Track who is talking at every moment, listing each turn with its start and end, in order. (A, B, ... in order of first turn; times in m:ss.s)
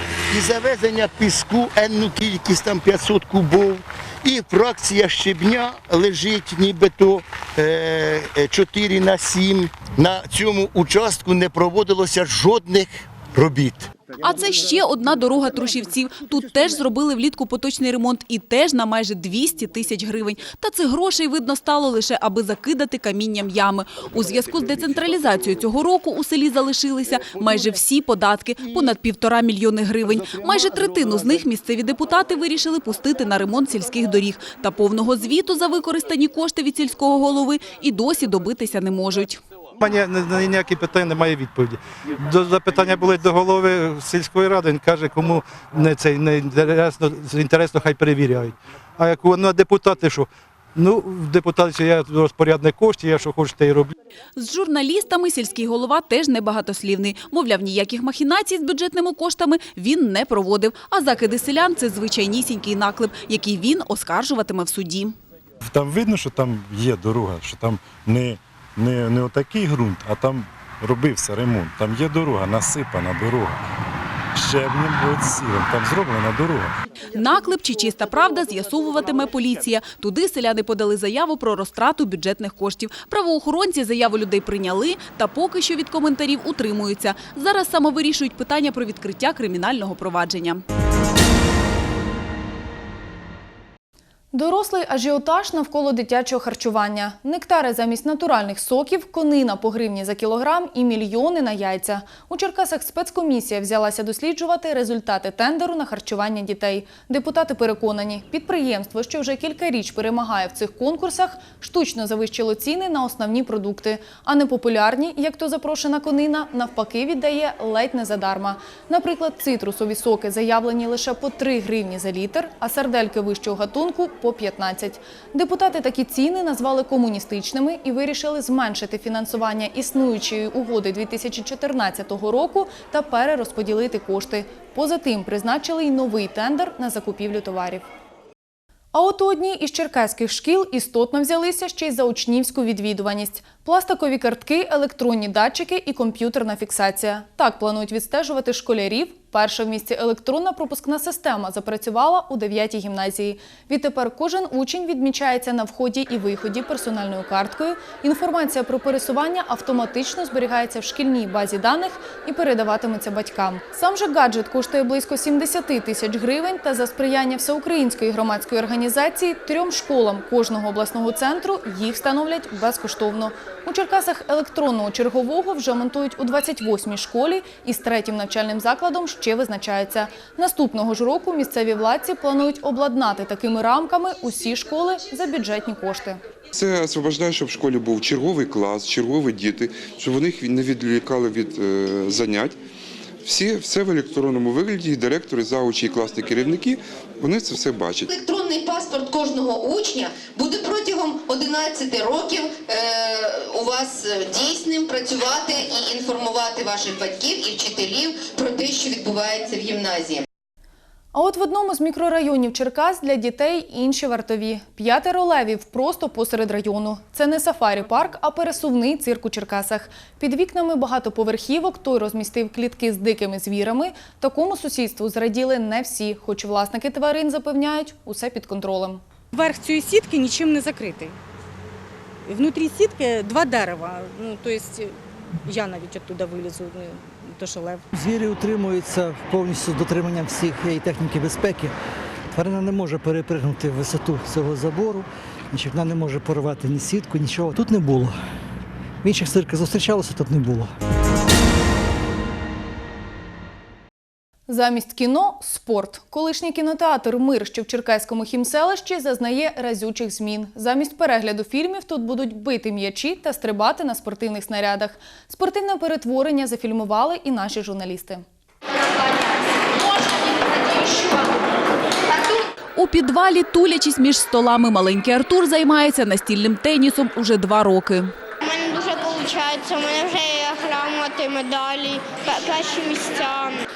0:00.3-0:13.9 A
0:14.2-0:39.4 B
0:39.8-0:53.9 C
0:54.4-1:05.1 B
1:05.6-1:13.6 D
1:14.3-1:16.7 D
1:17.1-1:30.6 B
1:34.3-2:17.9 E
2:18.9-3:06.2 E
3:06.5-3:12.6 F
3:13.2-3:18.1 F
3:18.1-3:30.2 G
3:31.1-3:49.0 E
3:49.3-3:51.1 H
3:52.3-3:54.9 H
3:55.4-3:57.8 H
3:58.0-4:01.7 I
4:02.3-4:08.1 I
4:09.0-4:10.7 I
4:14.5-4:28.2 E
4:30.4-4:31.3 J
4:32.8-4:38.1 B
4:38.4-4:43.6 J